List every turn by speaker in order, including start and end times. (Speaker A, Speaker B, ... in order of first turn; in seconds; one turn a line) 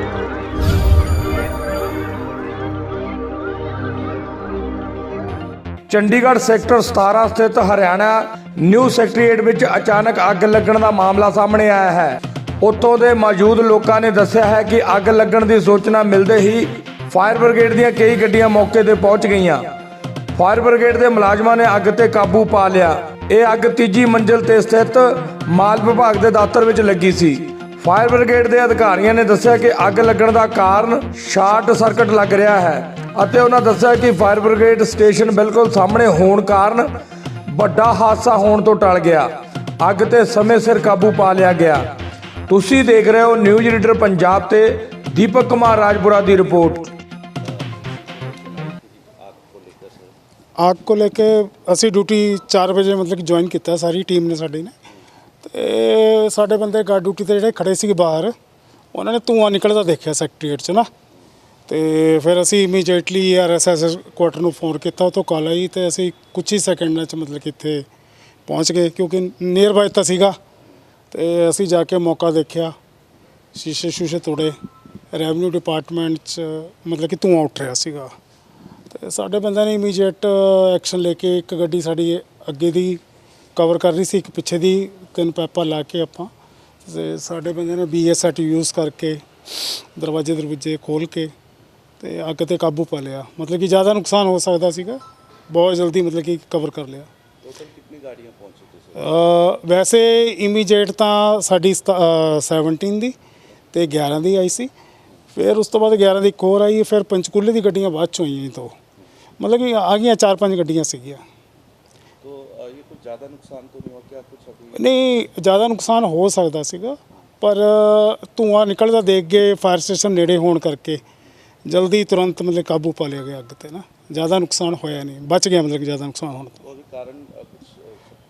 Speaker A: 5.9-19.6
Speaker A: 20.3-36.9
Speaker A: 37.5-41.9
Speaker A: 42.5-46.9
Speaker B: 47.4-50.1
Speaker C: 50.6-54.7
Speaker C: 55.4-58.3
Speaker C: 58.9-60.9
Speaker C: 61.7-67.8
Speaker C: 68.5-70.4
Speaker C: 71.1-72.7
Speaker C: 73.5-74.5
Speaker C: 75.1-78.1
Speaker C: 78.9-83.0
Speaker C: 83.5-86.3
Speaker C: 86.8-91.3
Speaker C: 92.0-97.1
Speaker B: 97.4-99.2
Speaker C: 99.0-103.1
Speaker C: 103.7-104.7
Speaker C: 105.3-108.7
Speaker C: 109.4-111.2
Speaker B: 112.2-114.9
Speaker C: 114.7-121.0
Speaker C: 121.7-126.6
Speaker B: 126.6-128.0